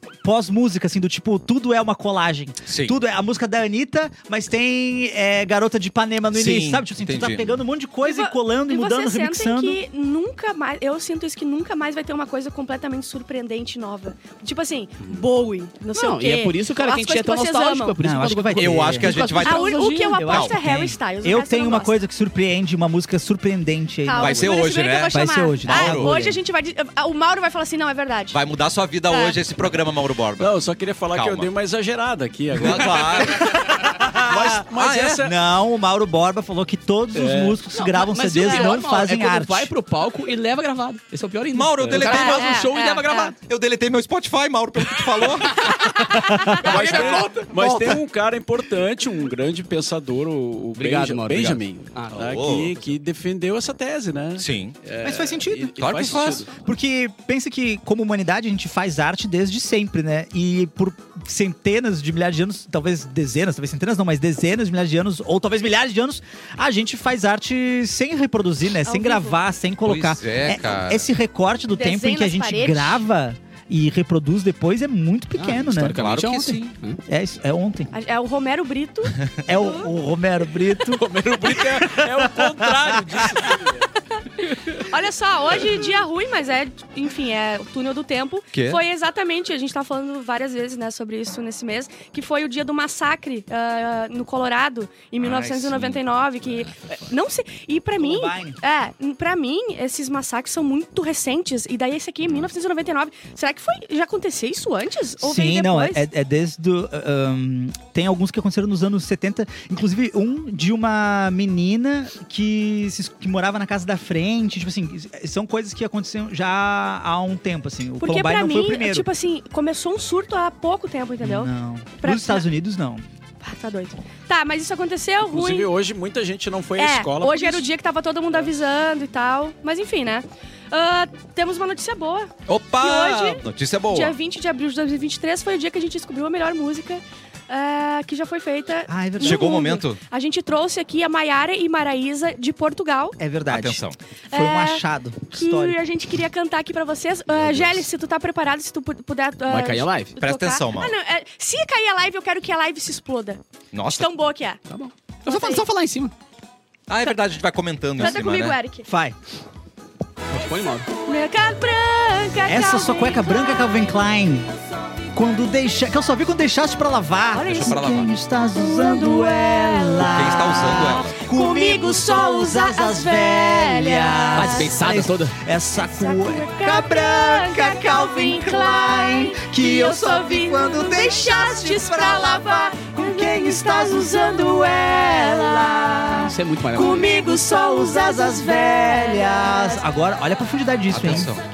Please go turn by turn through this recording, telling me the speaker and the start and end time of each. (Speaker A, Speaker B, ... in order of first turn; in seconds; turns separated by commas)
Speaker A: 0.2-9.8, Speaker B: 2.7-3.0, Speaker B: 6.3-7.6, Speaker C: 8.0-18.0, Speaker D: 15.9-20.3, Speaker A: 18.0-19.2, Speaker B: 18.6-19.7, Speaker C: 19.4-22.0, Speaker A: 20.1-24.6, Speaker B: 20.3-20.5, Speaker C: 24.1-28.4, Speaker B: 24.2-26.1, Speaker A: 25.1-26.4, Speaker B: 28.3-30.6, Speaker C: 29.1-29.4, Speaker E: 30.4-35.3, Speaker B: 31.1-31.5, Speaker B: 32.5-35.3, Speaker A: 33.8-34.6, Speaker A: 35.2-39.7, Speaker E: 37.1-37.6, Speaker D: 37.7-43.3, Speaker C: 38.4-38.8, Speaker B: 41.5-42.8, Speaker E: 41.8-42.1, Speaker C: 42.0-43.3, Speaker B: 43.4-45.9, Speaker D: 45.6-47.8, Speaker E: 46.6-56.5, Speaker B: 46.7-47.9, Speaker D: 50.8-52.9, Speaker B: 52.2-52.7, Speaker B: 54.4-54.8, Speaker A: 55.0-76.0, Speaker B: 55.8-56.5, Speaker C: 68.8-69.4, Speaker B: 69.8-71.1, Speaker C: 71.7-73.0, Speaker D: 75.4-77.0, Speaker B: 75.9-76.7, Speaker A: 77.1-77.9, Speaker C: 77.9-79.9, Speaker A: 79.5-83.5, Speaker E: 80.9-83.9, Speaker C: 84.4-106.1, Speaker B: 88.5-88.8, Speaker B: 95.2-96.0, Speaker A: 98.0-98.6, Speaker A: 105.2-119.1, Speaker C: 118.0-122.5, Speaker A: 121.2-123.0, Speaker C: 123.4-125.7, Speaker E: 125.2-127.7, Speaker C: 126.8-143.2, Speaker B: 132.5-134.1, Speaker A: 138.9-139.8, Speaker B: 139.2-140.0, Speaker A: 143.2-145.8, Speaker B: 143.5-144.0, Speaker C: 144.3-154.6, Speaker B: 147.3-147.9, Speaker D: 149.5-150.1, Speaker B: 150.2-150.9, Speaker B: 153.7-154.1, Speaker D: 154.7-156.1, Speaker C: 155.3-155.7, Speaker B: 156.9-158.6, Speaker C: 158.0-158.9, Speaker A: 158.9-159.2, Speaker D: 160.3-160.9, Speaker C: 161.1-163.8, Speaker A: 162.5-164.5, Speaker A: 165.1-191.3, Speaker C: 167.3-174.7, Speaker B: 167.5-168.1, Speaker B: 170.0-171.2, Speaker D: 174.3-175.3, Speaker C: 175.8-186.1, Speaker D: 186.2-187.0, Speaker C: 186.8-189.8, Speaker B: 190.9-191.4